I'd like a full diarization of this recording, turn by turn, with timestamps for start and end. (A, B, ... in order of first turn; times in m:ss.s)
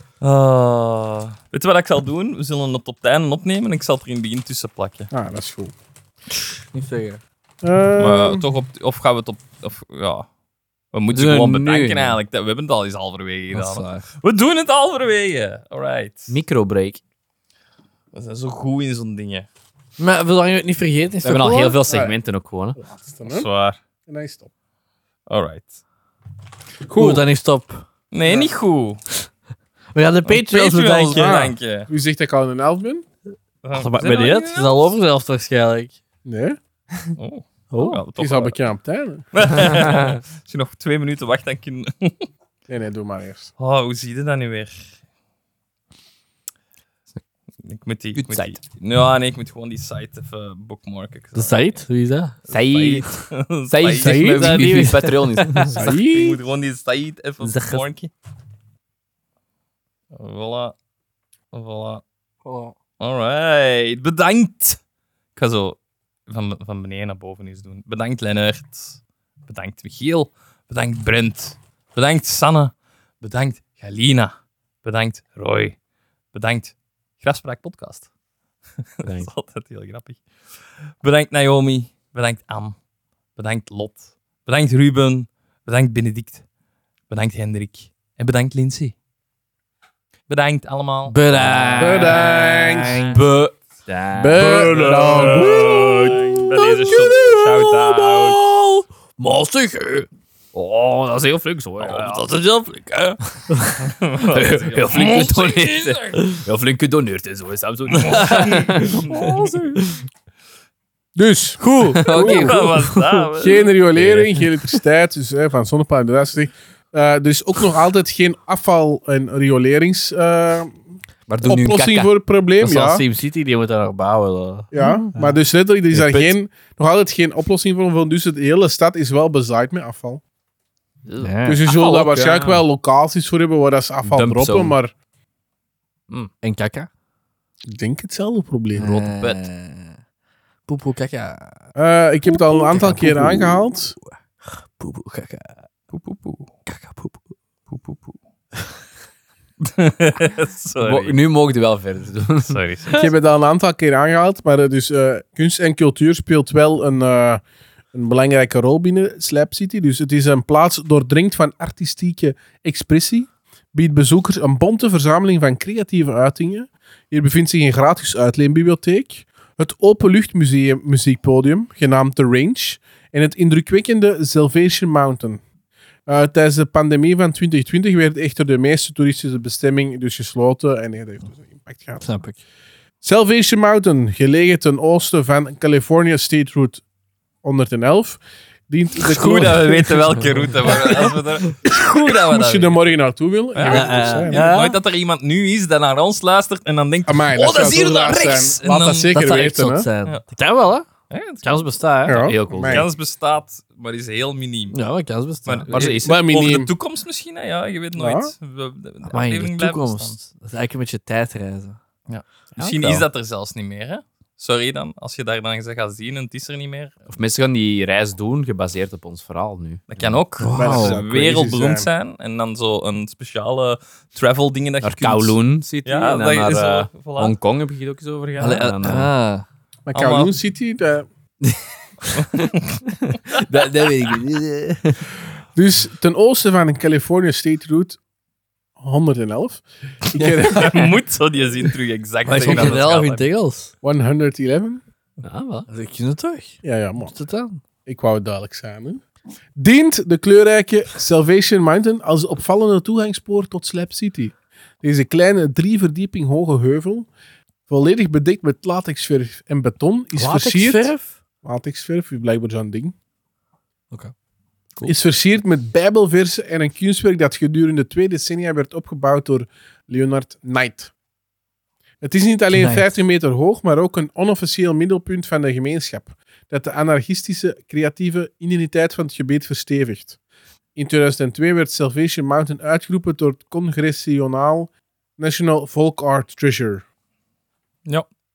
0:00.2-0:05.1 A
0:05.1-0:05.7 B
0:06.7-0:07.2 C
0:07.6-0:08.4 B
0:08.0-0:10.3 A
0:10.9-0:16.3 A
0:11.1-0:12.2 D
0:13.5-0:14.1 C
0:16.3-0:17.0 D
0:18.1-0:19.5 A
0:20.0-0:21.8 C
0:21.2-0:22.8 D
0:21.9-0:22.2 B
0:22.8-0:23.5 B
0:23.2-0:23.8 A
0:24.1-0:24.5 B
0:25.3-0:25.7 A
0:26.9-0:27.2 B
0:27.0-0:27.9 C
0:28.1-0:29.0 A
0:28.3-0:28.5 B
0:30.0-0:31.4 C
0:30.3-0:31.9 A
0:31.1-0:33.0 B
0:33.6-0:34.9 A
0:33.8-0:36.0 C
0:36.2-0:36.6 B
0:37.2-0:38.6 A
0:37.7-0:38.0 C
0:38.2-0:39.6 B
0:39.3-0:42.3 A
0:42.7-0:43.5 B
0:43.6-0:44.9 A
0:47.6-0:51.7 A
0:48.2-0:48.6 D
0:51.4-0:52.4 C
0:52.5-0:54.4 A
0:52.5-0:53.1 D
0:53.7-0:56.0 D
0:54.0-0:56.1 C
0:54.0-0:54.8 B
0:55.7-0:58.1 A
0:55.8-0:56.4 B
0:57.4-0:57.8 C
1:00.1-1:00.8 A
1:01.5-1:02.0 A
1:02.4-1:02.8 C
1:03.0-1:04.8 A
1:05.4-1:15.8 A
1:16.3-1:18.1 A
1:19.0-1:20.2 A
1:21.0-1:22.8 A
1:23.4-1:26.4 A
1:27.1-1:29.0 A
1:30.3-1:33.2 A
1:31.1-1:33.6 C
1:31.8-1:33.0 B
1:33.9-1:34.8 D
1:34.2-1:36.3 B
1:34.4-1:40.1 C
1:34.6-1:38.5 A
1:40.5-1:42.2 D
1:41.8-1:42.4 A
1:41.9-1:43.8 C
1:43.8-1:46.2 A
1:44.3-1:48.9 D
1:46.2-1:46.4 C
1:48.0-1:50.0 C
1:48.0-1:49.5 A
1:51.2-1:52.6 B
1:51.6-1:53.3 C
1:51.9-1:52.5 D
1:52.1-1:53.7 A
1:53.4-2:00.8 B
1:54.0-1:54.3 D
2:01.3-2:02.1 D
2:01.4-2:03.0 B
2:02.6-2:05.4 C
2:04.7-2:10.2 B
2:05.9-2:06.4 D
2:11.1-2:12.6 D
2:11.2-2:11.6 C
2:11.5-2:14.9 B
2:14.0-2:14.8 D
2:16.4-2:16.9 C
2:17.7-2:18.9 B
2:18.8-2:20.0 C
2:18.8-2:19.5 D
2:20.7-2:21.6 C
2:21.8-2:24.0 B
2:22.3-2:25.6 C
2:25.9-2:26.5 A
2:26.7-2:27.2 C
2:27.7-2:28.2 A
2:29.6-2:31.2 A
2:30.8-2:32.6 D
2:32.5-2:33.1 A
2:32.9-2:37.4 B
2:37.9-2:55.4 B
2:56.1-3:02.1 B
3:02.0-3:02.4 C
3:03.0-3:06.8 B
3:07.4-3:10.1 B
3:09.0-3:12.8 A
3:10.6-3:11.2 B
3:11.7-3:14.5 B
3:13.6-3:19.4 A
3:13.6-3:14.8 C
3:17.1-3:19.9 B
3:19.1-3:20.9 C
3:21.1-3:21.6 A
3:21.4-3:22.3 C
3:22.1-3:22.9 B
3:22.2-3:22.9 D
3:22.7-3:24.8 A
3:24.7-3:25.8 C
3:25.5-3:30.2 A
3:25.7-3:26.2 D
3:25.8-3:26.7 B
3:28.0-3:28.3 B
3:29.1-3:31.8 C
3:32.1-3:36.9 A
3:32.6-3:33.1 C
3:37.1-3:40.2 D
3:39.9-3:47.4 A
3:40.4-3:41.0 C
3:40.5-3:41.9 B
3:44.8-3:49.1 D
3:48.4-3:49.4 C
3:49.9-3:51.1 B
3:49.9-3:50.3 A
3:51.4-3:52.4 D
3:52.2-3:52.8 A
3:53.1-3:55.0 D
3:55.6-3:58.0 B
3:58.8-4:00.9 B
4:00.5-4:03.2 A
4:02.3-4:03.7 C
4:02.4-4:02.7 B
4:03.8-4:04.8 B
4:05.2-4:05.7 D
4:05.7-4:07.6 C
4:06.6-4:07.1 B
4:07.9-4:09.0 B
4:09.6-4:17.1 B
4:17.7-4:20.9 B
4:20.2-4:21.2 C
4:21.4-4:22.9 B
4:24.8-4:30.9 B
4:32.0-4:40.2 B
4:32.5-4:32.9 C
4:40.8-4:46.8 B